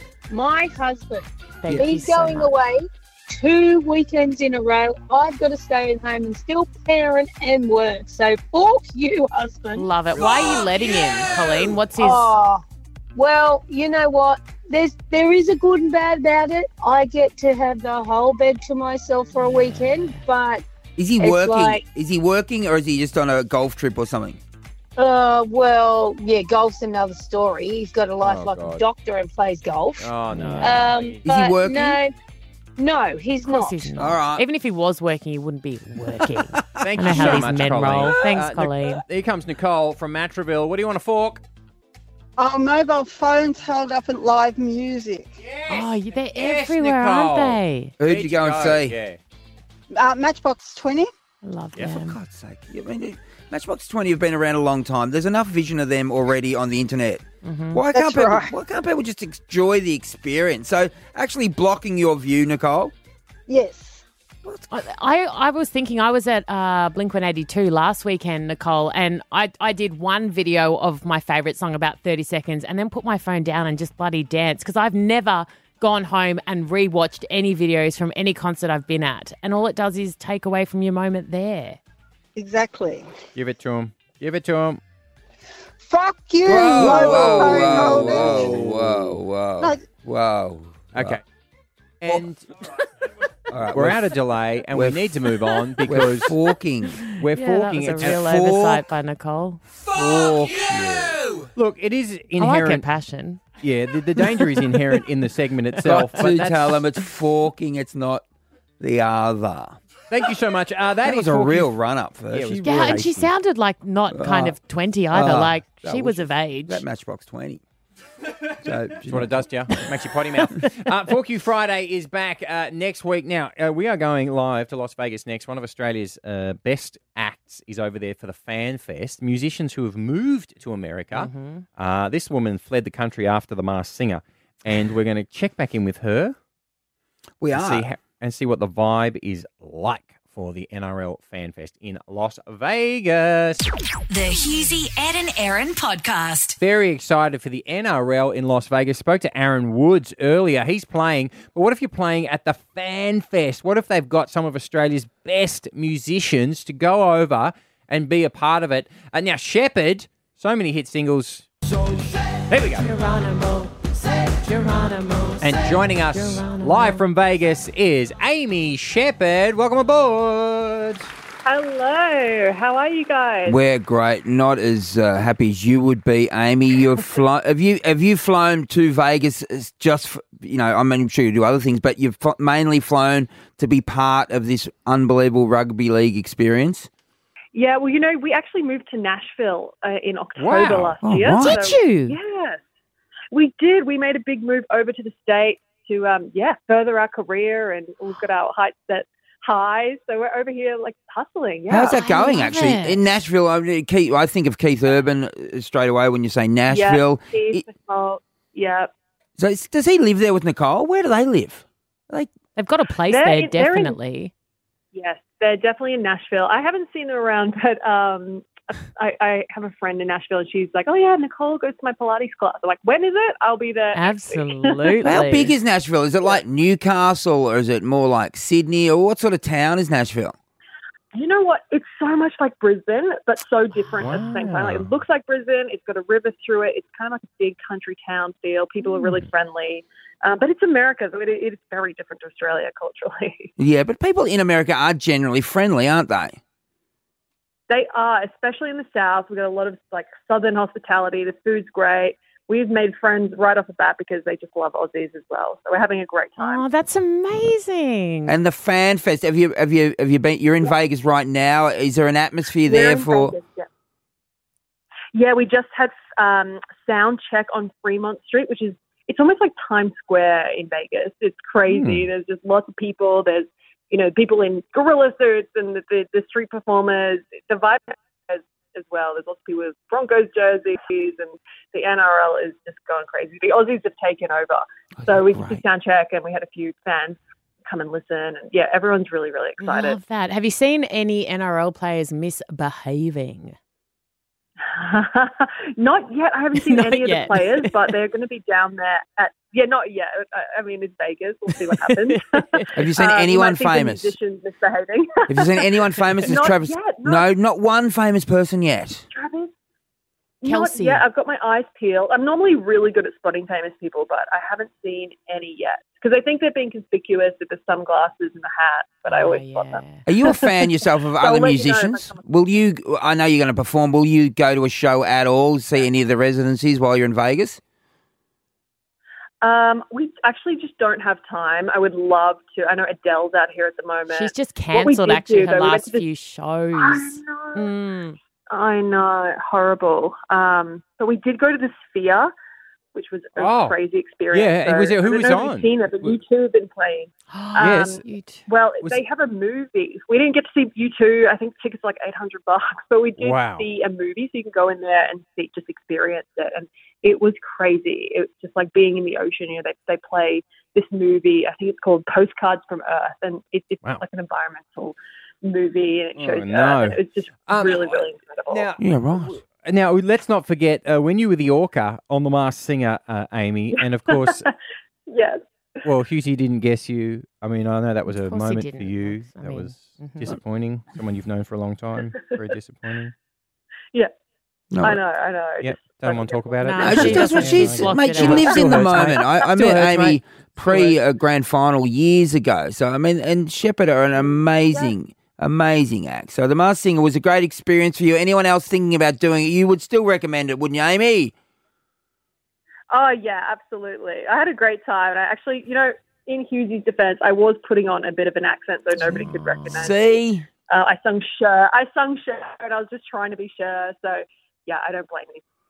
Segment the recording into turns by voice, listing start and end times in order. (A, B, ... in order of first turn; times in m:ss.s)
0:00.3-0:10.3 A
0:01.6-0:02.5 B
0:09.8-0:12.3 B
0:12.0-0:12.6 A
0:13.2-0:20.6 A
0:19.3-0:20.2 B
0:21.0-0:24.4 C
0:21.2-0:21.8 A
0:25.0-0:30.1 A
0:28.2-0:28.8 D
0:30.0-0:31.2 D
0:30.3-0:30.8 B
0:30.6-0:32.1 A
0:31.2-0:32.0 C
0:32.8-0:33.9 A
0:33.4-0:39.0 B
0:34.0-0:34.4 C
0:36.4-0:37.5 C
0:36.8-0:41.4 D
0:42.4-0:45.2 E
0:45.4-0:49.2 D
0:45.7-0:47.9 B
0:48.0-0:49.0 C
0:49.9-0:51.1 E
0:51.4-0:52.2 B
0:51.8-1:02.9 C
0:57.4-0:57.8 B
0:57.9-0:58.5 E
1:03.5-1:04.0 A
1:03.7-1:04.0 E
1:04.4-1:04.7 C
1:04.7-1:21.8 B
1:22.4-1:23.1 E
1:23.3-1:24.8 D
1:25.8-1:28.7 E
1:26.4-1:31.2 C
1:26.7-1:29.2 D
1:29.6-1:29.8 E
1:30.9-1:31.2 D
1:32.0-1:32.5 D
1:33.5-1:34.1 C
1:33.7-1:36.3 D
1:34.7-1:35.1 C
1:35.8-1:37.0 C
1:37.0-1:39.6 B
1:37.2-1:38.7 D
1:38.0-1:38.8 C
1:39.8-1:41.5 C
1:41.5-1:42.8 D
1:42.4-1:43.4 B
1:43.6-1:46.7 D
1:45.8-1:48.2 C
1:45.9-1:46.2 B
1:48.8-1:49.8 C
1:50.1-1:51.7 D
1:51.0-1:53.0 C
1:52.3-1:53.3 D
1:52.6-1:56.8 B
1:54.1-1:54.6 C
1:55.1-1:57.6 C
1:58.6-1:59.5 C
1:59.0-2:16.4 D
2:11.1-2:11.6 B
2:17.4-2:17.8 C
2:17.5-2:23.7 D
2:24.1-2:26.6 F
2:26.6-2:42.9 D
2:42.8-2:47.0 B
2:45.4-2:51.1 D
2:51.4-2:53.6 G
2:53.4-3:06.9 C
3:07.5-3:12.6 G
3:10.4-3:11.0 D
3:11.0-3:11.6 C
3:11.3-3:12.2 B
3:13.3-3:22.0 G
3:21.7-3:27.6 C
3:21.8-3:23.0 B
3:26.7-3:28.9 G
3:29.4-3:32.3 C
3:32.6-3:34.3 B
3:33.1-3:34.0 G
3:34.9-3:45.2 G
3:43.9-3:45.5 B
3:45.0-3:50.4 C
3:51.1-4:03.5 G
3:53.9-3:54.5 B
3:54.0-3:54.9 D
4:03.6-4:06.4 C
4:07.7-4:16.6 G
4:16.4-4:18.4 B
4:18.2-4:23.4 C
4:22.6-4:23.7 G
4:25.1-4:50.0 G
4:31.7-4:32.1 D
4:45.0-4:45.6 C
4:49.6-4:53.6 B
4:54.6-5:05.5 G
4:56.6-4:57.9 B
5:01.6-5:02.7 B
5:02.7-5:04.2 C
5:05.3-5:09.0 C
5:06.0-5:06.3 B
5:06.3-5:07.3 G
5:09.1-5:09.5 G
5:10.4-5:20.5 G
5:10.4-5:11.0 B
5:19.0-5:20.0 B
5:20.0-5:27.6 C
5:21.2-5:22.2 G
5:29.4-5:36.1 G
5:34.1-5:38.2 B
5:36.7-5:37.7 G
5:38.5-5:42.3 G
5:42.9-6:08.7 G
5:43.4-5:43.8 D
5:44.3-5:46.1 D
5:47.3-5:48.4 B
5:47.6-5:48.0 D
5:53.2-5:53.7 D
6:06.2-6:14.5 D
6:08.8-6:09.4 C
6:14.1-6:14.5 G
6:15.1-6:15.4 G
6:15.8-6:23.1 D
6:18.1-6:20.3 B
6:24.7-6:25.0 C
6:24.8-6:26.7 G
6:25.6-6:31.0 D
6:26.6-6:29.0 B
6:26.8-6:41.3 C
6:34.1-6:34.9 G
6:42.9-6:55.4 G
6:48.9-6:49.9 B
6:49.7-6:50.5 C